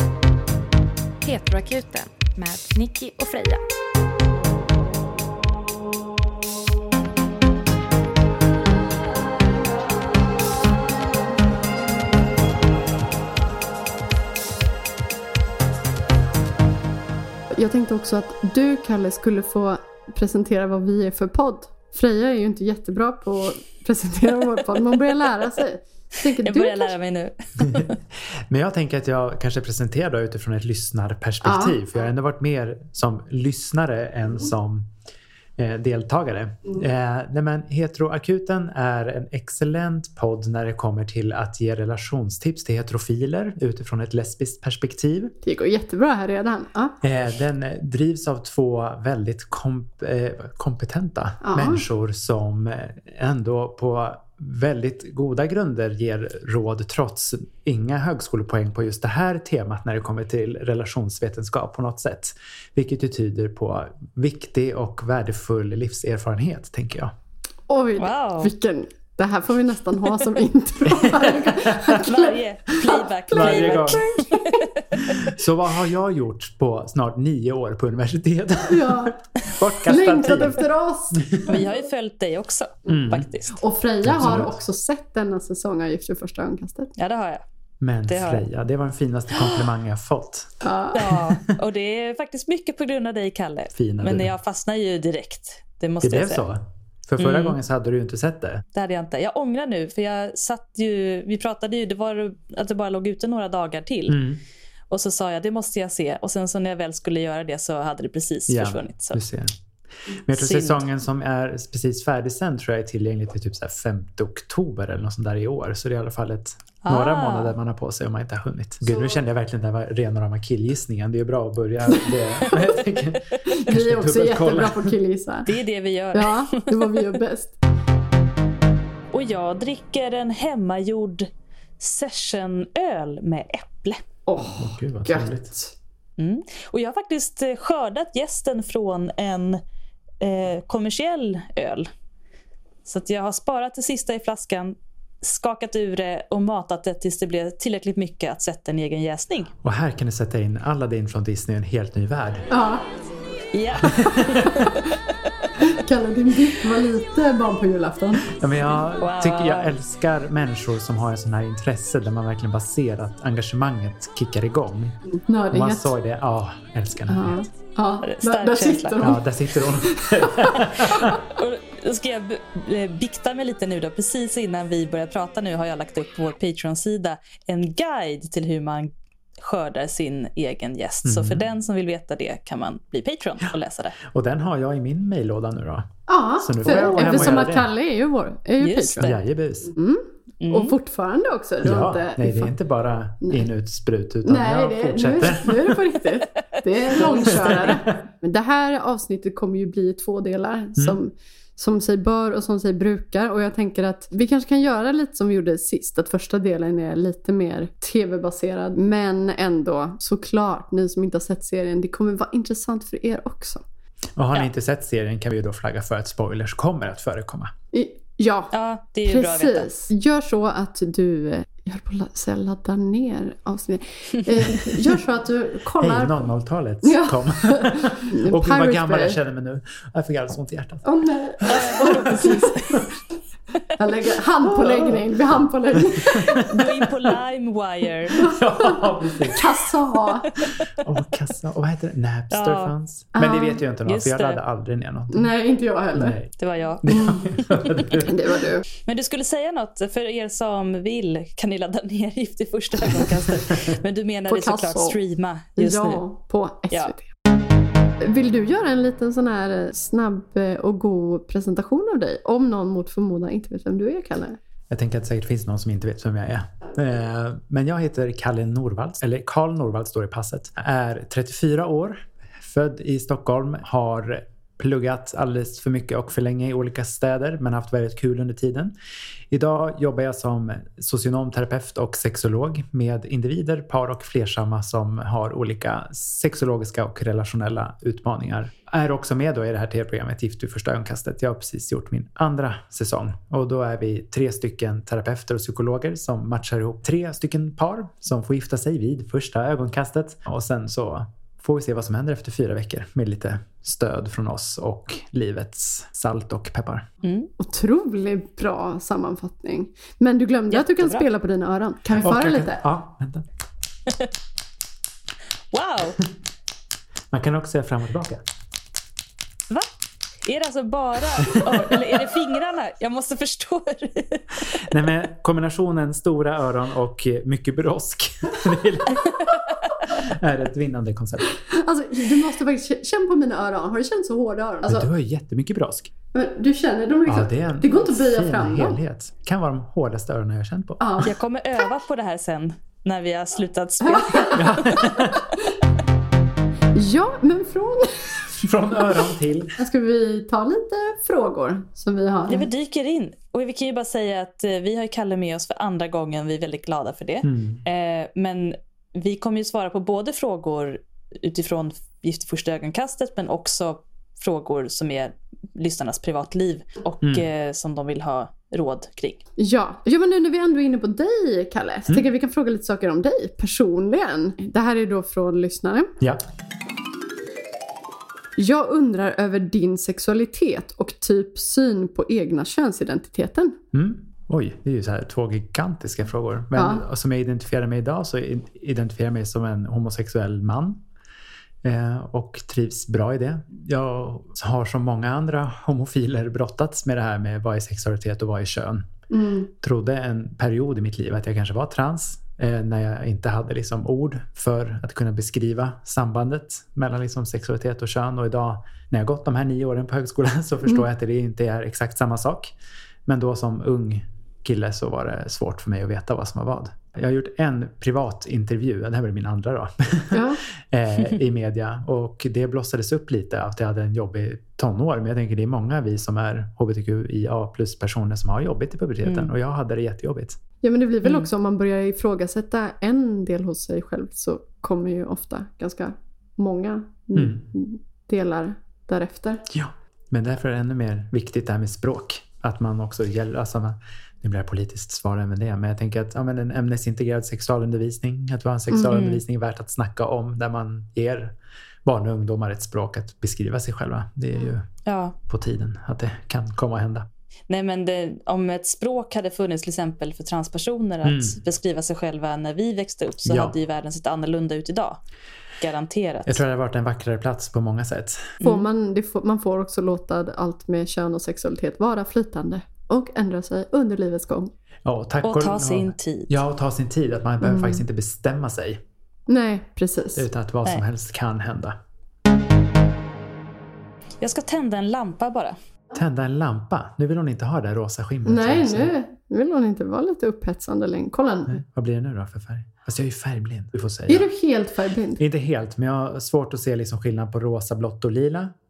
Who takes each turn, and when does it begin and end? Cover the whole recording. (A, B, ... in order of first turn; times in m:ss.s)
0:01.2-0:03.6 A
0:17.5-0:27.0 B
0:26.4-0:27.9 C
0:27.6-0:34.9 D
0:31.4-0:31.8 B
0:35.6-0:45.3 D
0:45.4-0:47.0 B
0:47.0-1:07.1 D
0:51.4-0:51.8 B
1:07.7-1:14.7 B
1:08.0-1:08.5 C
1:10.9-1:12.0 D
1:12.0-1:15.2 C
1:13.3-1:14.0 D
1:15.1-1:20.6 D
1:18.7-1:19.2 B
1:19.8-1:21.6 B
1:21.2-1:21.5 D
1:21.5-1:23.6 C
1:22.9-1:23.3 D
1:23.6-1:26.9 B
1:24.0-1:24.6 D
1:27.0-1:27.4 C
1:27.8-1:31.5 D
1:28.1-1:28.5 C
1:29.3-1:29.7 C
1:30.6-1:31.1 B
1:30.9-1:36.4 C
1:33.7-1:34.3 D
1:36.0-1:38.6 D
1:37.2-1:37.6 C
1:38.7-1:44.2 C
1:44.1-1:44.4 D
1:44.9-1:49.2 C
1:48.5-1:49.5 D
1:50.1-2:05.0 D
1:50.3-1:50.9 C
1:56.8-1:57.5 C
1:58.9-1:59.1 B
2:03.5-2:05.6 B
2:05.5-2:07.1 C
2:06.1-2:07.6 B
2:09.1-2:14.0 C
2:14.3-2:15.8 B
2:14.4-2:15.5 D
2:16.2-2:19.6 C
2:20.2-2:21.9 C
2:22.9-2:29.5 C
2:29.6-2:32.5 D
2:32.5-2:32.9 B
2:33.5-2:35.1 C
2:33.8-2:34.7 D
2:35.6-2:38.4 B
2:38.4-2:45.0 D
2:39.0-2:39.7 C
2:45.0-2:45.9 B
2:45.5-2:47.4 D
2:47.1-2:50.7 B
2:48.0-2:49.0 C
2:49.0-2:51.2 D
2:50.9-3:04.0 C
3:01.0-3:01.4 D
3:04.0-3:07.7 D
3:06.1-3:09.1 B
3:08.6-3:09.2 C
3:09.0-3:09.7 D
3:09.7-3:12.5 B
3:10.4-3:10.7 C
3:11.6-3:15.8 D
3:14.2-3:33.6 B
3:17.1-3:17.8 C
3:17.2-3:18.0 D
3:34.2-3:37.5 D
3:37.7-3:38.5 B
3:38.5-3:39.7 C
3:39.1-3:46.3 B
3:45.8-3:50.9 D
3:46.8-3:49.2 B
3:50.8-3:52.9 B
3:51.4-3:52.8 D
3:51.5-3:52.6 C
3:53.8-3:56.6 B
3:54.6-3:55.0 D
3:55.9-3:56.5 D
3:56.4-3:58.2 C
3:58.1-4:00.3 B
3:58.2-3:59.6 D
4:00.8-4:05.3 D
4:02.3-4:02.7 C
4:03.2-4:03.6 B
4:03.8-4:04.4 C
4:05.1-4:06.2 B
4:06.0-4:06.3 D
4:06.4-4:08.0 C
4:06.8-4:08.2 D
4:06.9-4:07.2 B
4:07.9-4:08.6 B
4:08.8-4:16.0 C
4:14.3-4:15.0 B
4:15.6-4:17.1 B
4:18.0-4:24.4 B
4:24.7-4:38.7 D
4:39.3-5:06.9 D
5:07.0-5:07.3 C
5:07.4-5:12.6 B
5:10.5-5:11.0 C
5:12.0-5:13.3 D
5:15.5-5:16.0 C
5:17.1-5:18.2 D
5:20.2-5:24.7 C
5:21.2-5:22.0 D
5:24.6-5:29.3 D
5:29.0-5:29.8 C
5:29.9-5:31.3 D
5:31.5-5:34.9 B
5:34.7-5:35.9 D
5:36.1-5:38.8 B
5:37.1-5:40.8 D
5:40.8-5:41.1 B
5:41.0-5:44.9 C
5:43.8-5:44.4 B
5:44.3-5:45.3 D
5:46.7-5:48.4 B
5:48.4-5:49.6 D
5:49.6-5:52.5 B
5:52.3-6:09.2 C
5:57.2-5:57.6 D
6:09.4-6:15.9 B
6:18.4-6:23.6 B
6:23.7-6:30.8 D
6:26.5-6:26.8 B
6:31.6-6:38.9 D
6:39.1-6:39.5 B
6:39.6-6:52.6 D
6:53.1-7:10.4 D
7:00.1-7:00.4 B
7:09.0-7:09.3 C
7:10.6-7:19.4 B
7:17.2-7:17.4 D
7:19.5-7:34.7 D
7:28.7-7:29.0 B
7:28.9-7:29.2 C
7:34.9-7:35.2 C
7:35.3-7:37.1 D
7:37.5-7:45.0 C
7:41.0-7:41.4 D
7:43.3-7:43.6 D
7:45.6-7:46.4 C
7:46.3-7:48.4 D
7:48.4-7:54.5 B
7:54.8-7:58.8 D
7:55.2-7:56.3 C
7:57.4-7:57.8 B
7:59.3-8:00.3 B
8:00.2-8:01.8 D
8:04.2-8:05.6 C
8:05.9-8:08.9 D
8:08.3-8:11.6 B
8:11.5-8:14.3 D
8:14.1-8:15.2 B
8:15.2-8:18.6 D